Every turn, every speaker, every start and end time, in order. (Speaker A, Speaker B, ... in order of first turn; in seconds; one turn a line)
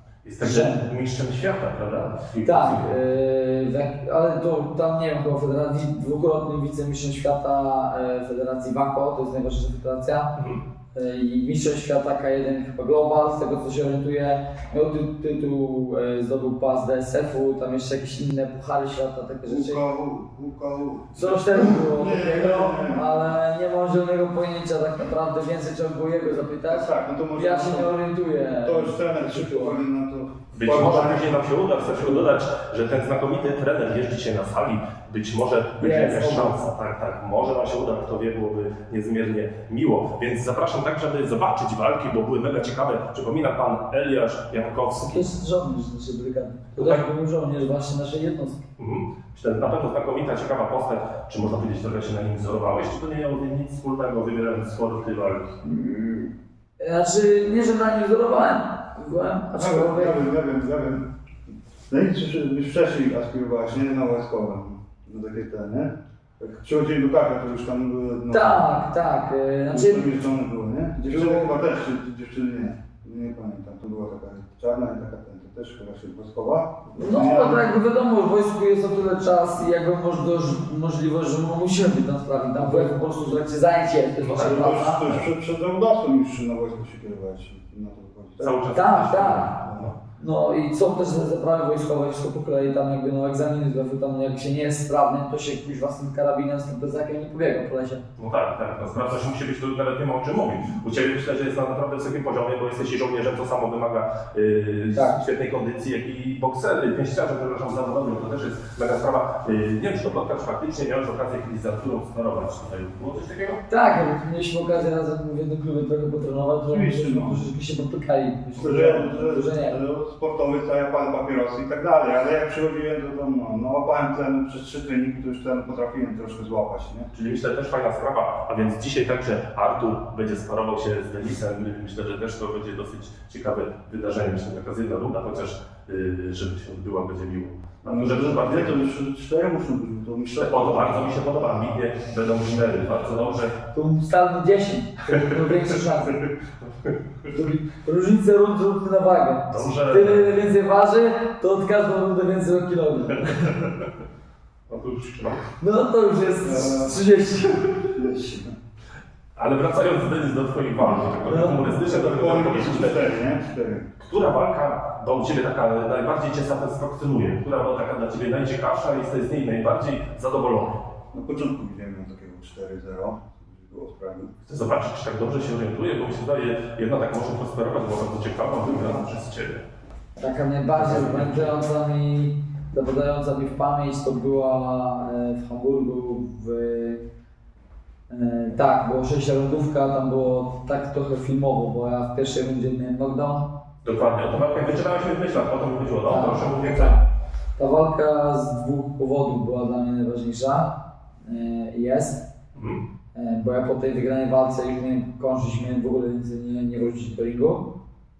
Speaker A: 0.2-2.9
Speaker B: 0.4-0.9
Speaker B: 2.4-10.3
Speaker B: 10.9-19.9
Speaker C: 19.4-23.3
Speaker B: 21.1-29.8
Speaker C: 26.6-27.9
Speaker C: 28.6-31.5
Speaker A: 30.5-45.2
Speaker B: 32.0-32.3
Speaker B: 35.8-36.6
Speaker B: 44.9-48.6
Speaker A: 46.8-47.0
Speaker A: 48.8-55.6
Speaker B: 55.6-60.2
Speaker C: 59.5-61.1
Speaker C: 61.9-68.6
Speaker B: 68.3-70.2
Speaker C: 69.7-77.7
Speaker B: 71.0-71.6
Speaker B: 76.9-85.1
Speaker C: 82.4-83.0
Speaker A: 84.2-84.7
Speaker C: 84.4-88.5
Speaker A: 88.4-89.9
Speaker B: 88.7-98.0
Speaker C: 89.6-89.9
Speaker A: 98.2-113.6
Speaker B: 104.9-105.2
Speaker B: 113.7-119.8
Speaker C: 116.7-117.4
Speaker C: 118.6-127.1
Speaker A: 127.1-138.8
Speaker C: 137.8-141.1
Speaker A: 140.4-143.6
Speaker B: 143.7-146.2
Speaker A: 145.1-145.7
Speaker A: 146.3-147.2
Speaker B: 147.3-153.7
Speaker A: 149.5-150.3
Speaker A: 153.4-153.9
Speaker A: 154.7-155.5
Speaker B: 155.6-157.9
Speaker C: 156.4-157.0
Speaker C: 157.9-158.5
Speaker A: 159.3-163.1
Speaker C: 160.8-164.1
Speaker B: 161.3-161.6
Speaker A: 164.0-170.8
Speaker C: 171.1-174.3
Speaker A: 174.5-179.6
Speaker B: 180.2-187.0
Speaker A: 180.7-181.6
Speaker B: 188.1-193.5
Speaker A: 193.8-196.9
Speaker B: 196.1-197.0
Speaker B: 197.6-202.3
Speaker A: 202.5-202.8
Speaker B: 203.1-207.7